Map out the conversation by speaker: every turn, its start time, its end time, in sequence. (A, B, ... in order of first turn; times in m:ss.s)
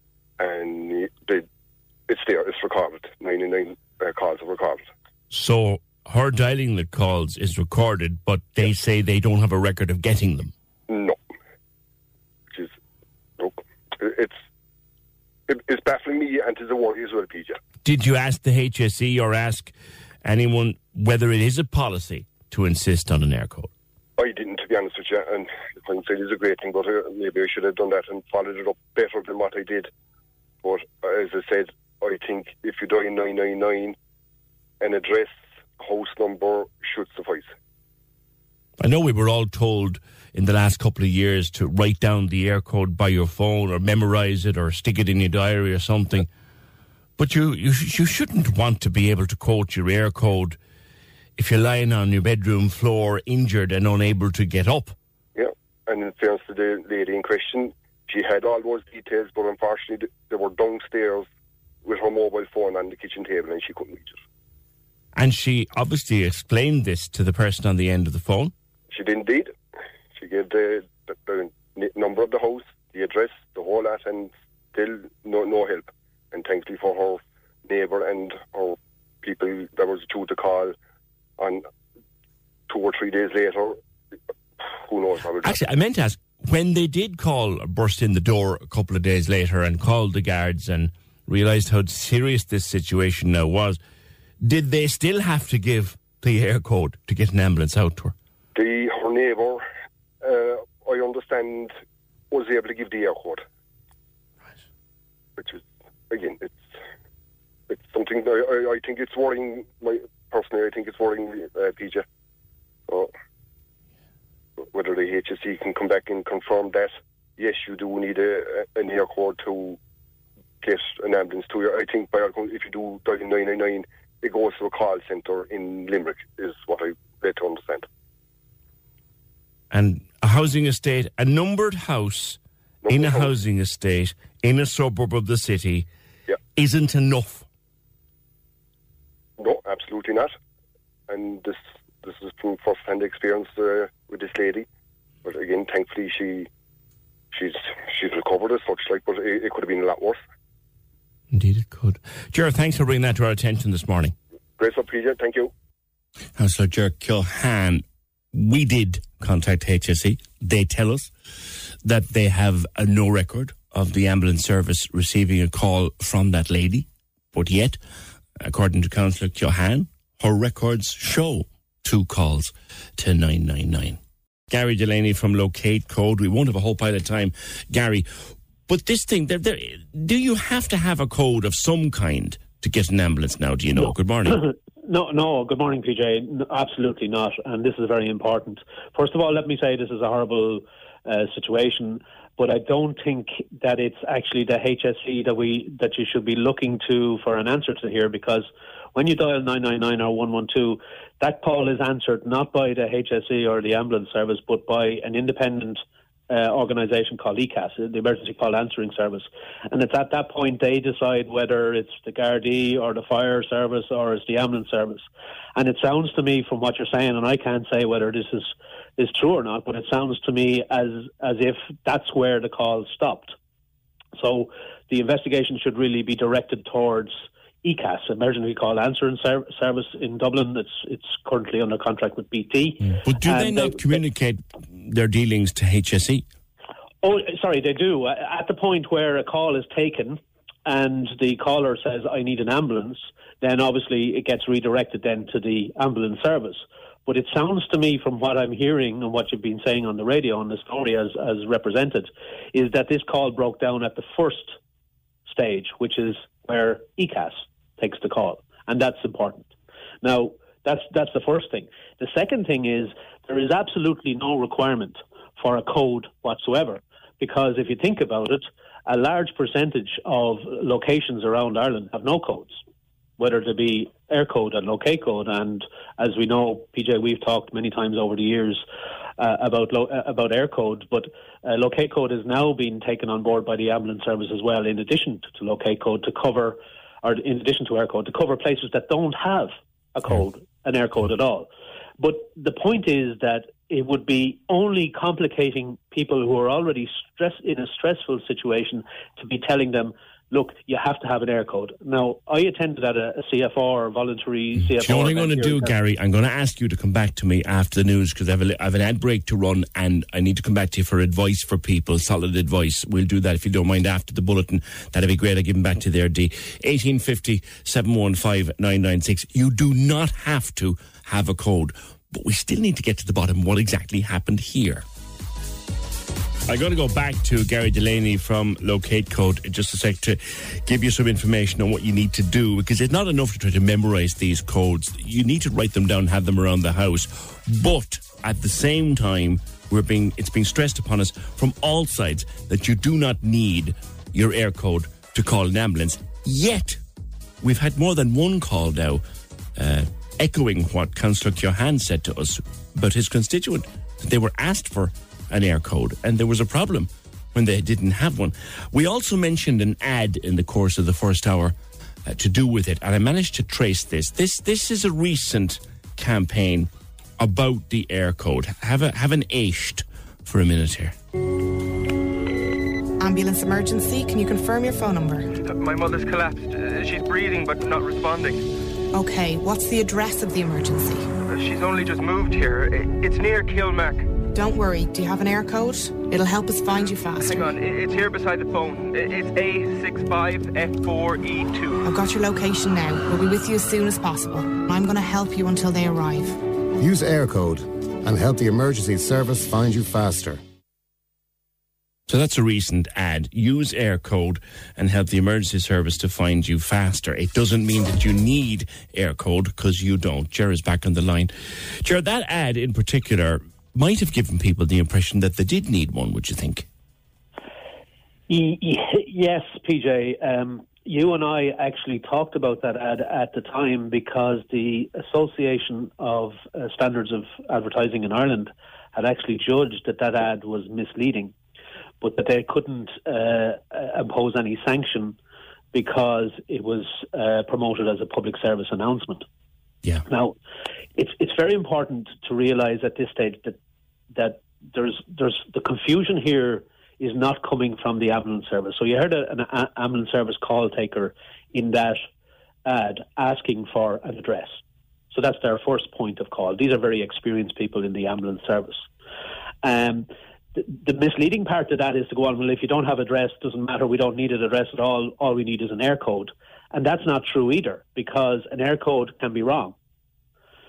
0:00.4-0:01.4 A
0:02.1-0:04.9 A
0:05.3-0:10.5 B
0:10.9-0:11.2 A
0:13.4-0:14.4 A
0:15.5-0:17.6 A
0:17.8-0:19.7 B
0:20.2-0:23.7 B
0:24.2-0:29.9 A
0:30.6-0:34.0 A
0:34.8-0:37.5 A
0:38.8-0:46.3 B
0:47.2-0:50.6 B
0:51.4-0:54.9 B
0:55.3-1:01.3 A
1:01.8-1:04.2 A
1:05.2-1:08.5 B
1:08.9-1:09.5 A
1:10.1-1:20.8 A
1:21.4-1:21.6 A
1:22.7-1:23.8 A
1:24.6-1:25.6 A
1:25.4-1:33.8 B
1:34.4-1:38.1 B
1:38.5-1:39.6 A
1:40.2-1:41.7 A
1:42.3-1:43.4 A
1:45.4-1:46.6 A
1:47.7-1:52.0 A
1:54.6-1:59.8 A
2:00.6-2:07.8 A
2:09.7-2:15.9 B
2:12.8-2:13.3 A
2:16.6-2:17.4 B
2:19.4-2:20.3 A
2:21.1-2:24.6 A
2:25.2-2:26.5 A
2:27.3-2:30.2 A
2:31.3-2:34.1 B
2:34.6-2:35.5 A
2:36.4-2:47.8 B
2:48.4-2:54.0 B
2:54.5-3:04.4 B
3:04.3-3:35.0 C
3:35.6-3:43.3 C
3:44.2-3:54.0 C
3:53.0-3:56.2 B
3:57.0-4:14.6 C
4:15.2-4:19.5 C
4:20.0-4:32.6 C
4:33.2-4:38.6 C
4:39.2-5:05.7 C
5:04.7-5:24.8 B
5:26.5-5:46.8 B
5:47.4-5:49.0 B
5:49.6-6:01.5 B
6:02.0-6:10.9 B
6:13.0-6:15.3 D
6:15.4-6:18.4 E
6:18.9-6:21.1 D
6:21.3-6:24.2 E
6:24.3-6:27.5 D
6:27.2-6:31.8 E
6:31.8-6:36.4 D
6:36.8-6:40.4 F
6:42.1-6:56.7 B
6:58.3-7:11.3 C
7:12.0-7:15.2 C
7:15.7-7:19.2 C
7:20.0-7:20.4 C
7:21.0-7:23.6 C
7:24.1-7:32.0 C
7:32.6-7:34.6 C
7:35.1-7:38.9 C
7:39.6-7:49.7 C